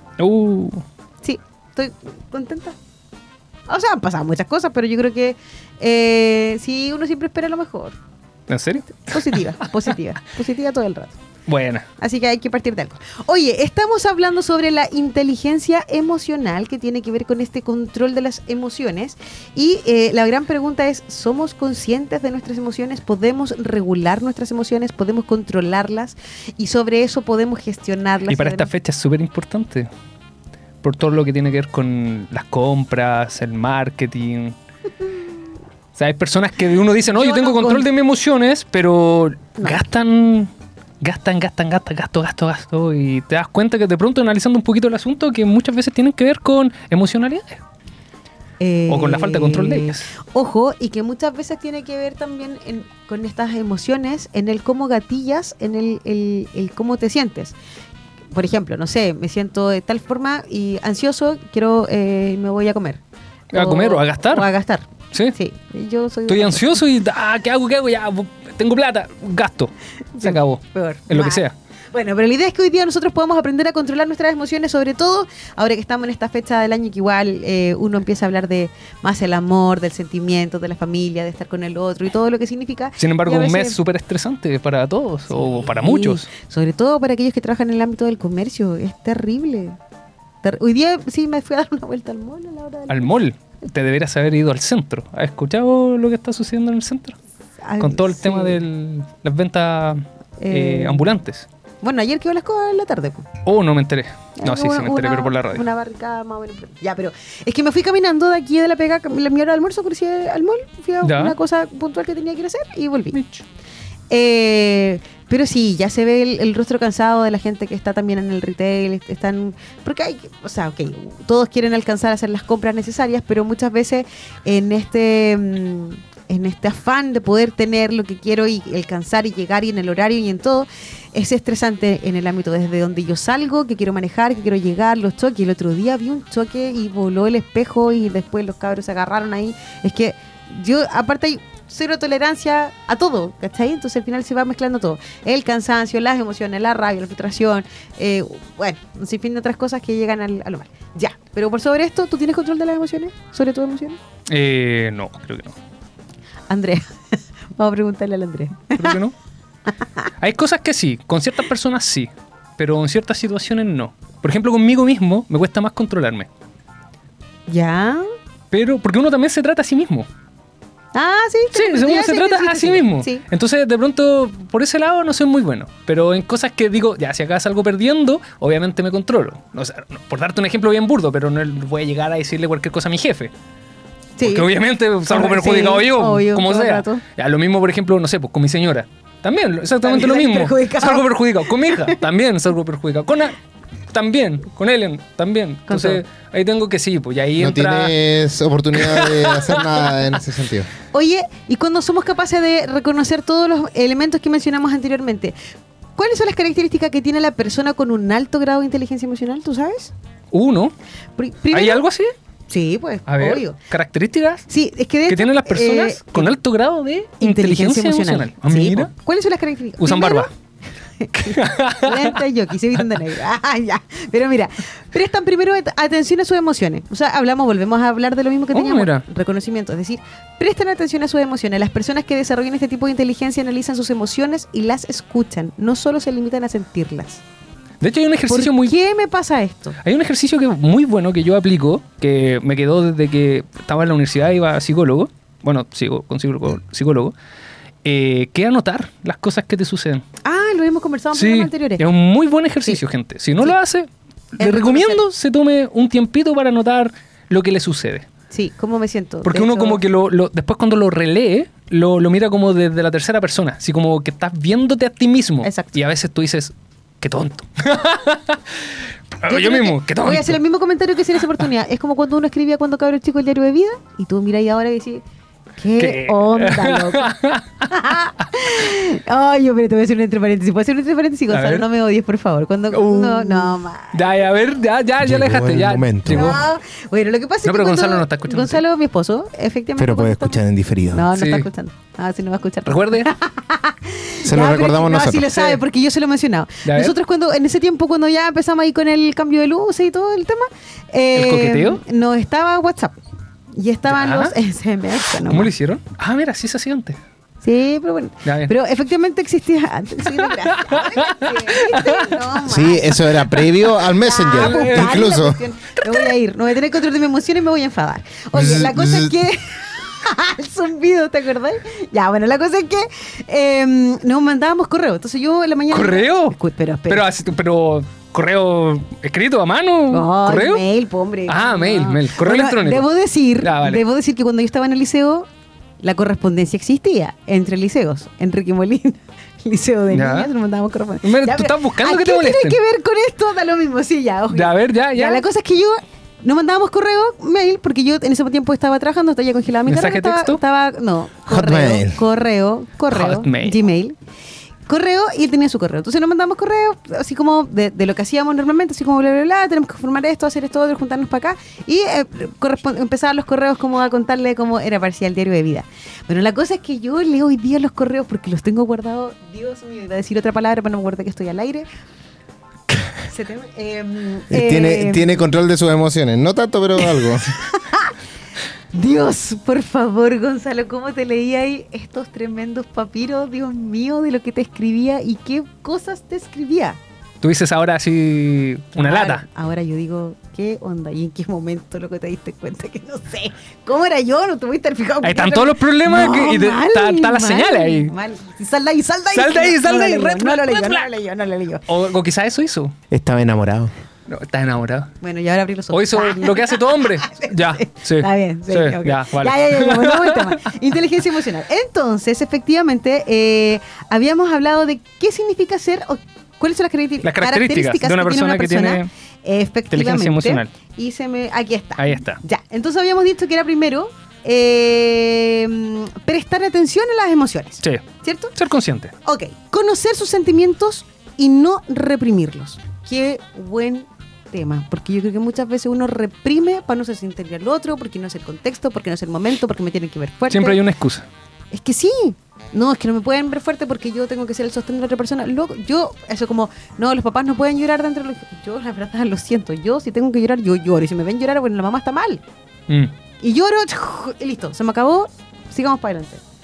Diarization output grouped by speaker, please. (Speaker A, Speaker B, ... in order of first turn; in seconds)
Speaker A: 0.2-0.8, 8.5-9.7, 11.5-11.9, 28.3-29.9, 30.8-34.5, 36.0-47.6, 48.9-50.1, 63.5-64.5, 66.3-71.5, 83.0-86.3, 92.9-97.2, 97.8-101.5, 103.5-105.7, 111.0-111.4, 113.1-113.4, 154.3-155.6, 158.7-159.1, 160.2-166.3, 168.5-170.1, 171.5-183.3, 184.2-193.4, 193.9-197.9, 198.8-199.9, 210.3-210.7, 211.5-212.1, 213.1-214.5, 215.1-218.9, 219.8-220.3, 221.2-222.2, 228.5-229.1, 237.8-238.8, 239.8-247.1, 247.8-250.0, 251.1-253.9, 254.4-258.1, 259.3-268.7, 269.2-270.4, 275.8-277.7, 281.3-281.7, 282.7-286.4, 287.4-288.6, 291.1-291.5, 292.7-293.1, 296.7-296.9, 301.1-301.8, 303.9-304.3, 305.3-307.0, 308.2-308.5, 310.1-312.2, 314.3-315.2, 315.8-316.1, 325.7-326.4, 326.9-330.6, 331.3-333.8, 339.9-340.3, 341.0-342.6, 344.3-345.2, 349.7-350.4, 352.9-353.6, 387.2-389.2, 395.0-397.9, 399.1-400.9, 401.7-402.7, 404.1-404.9, 405.7-410.4, 417.0-418.9, 419.7-420.5, 421.8-422.2, 427.6-428.9, 440.3-441.1
Speaker B: 1.2-2.8, 3.7-8.0, 9.1-11.2, 12.0-28.7, 37.1-37.9, 48.6-57.5, 58.3-63.0, 63.5-66.8, 70.2-83.8, 85.3-89.8, 90.4-93.0, 97.6-98.6, 100.4-101.1, 101.8-103.2, 104.4-113.2, 114.1-154.0, 156.5-156.9, 157.6-159.0, 167.5-168.1, 170.9-173.2, 184.2-184.5, 185.1-187.0, 189.8-192.0, 195.7-196.0, 200.9-205.3, 206.0-209.9, 211.2-211.8, 212.5-213.6, 214.5-216.4, 217.2-220.3, 221.0-237.2, 238.3-239.8, 250.2-251.8, 254.4-255.0, 258.3-259.8, 265.4-265.8, 269.2-275.0, 275.6-277.1, 277.7-284.3, 286.1-303.0, 303.5-305.5, 307.4-327.0, 329.9-335.3, 335.8-354.0, 354.7-371.7, 373.1-375.2, 377.5-377.9, 378.7-386.8, 388.8-401.6, 405.0-428.3, 429.0-440.6, 441.5-452.2, 453.2-456.2
Speaker C: 197.4-200.7, 285.0-286.4, 289.8-291.1, 294.2-295.4, 312.4-315.4, 318.3-319.1, 351.3-352.0, 374.3-377.4, 402.9-403.7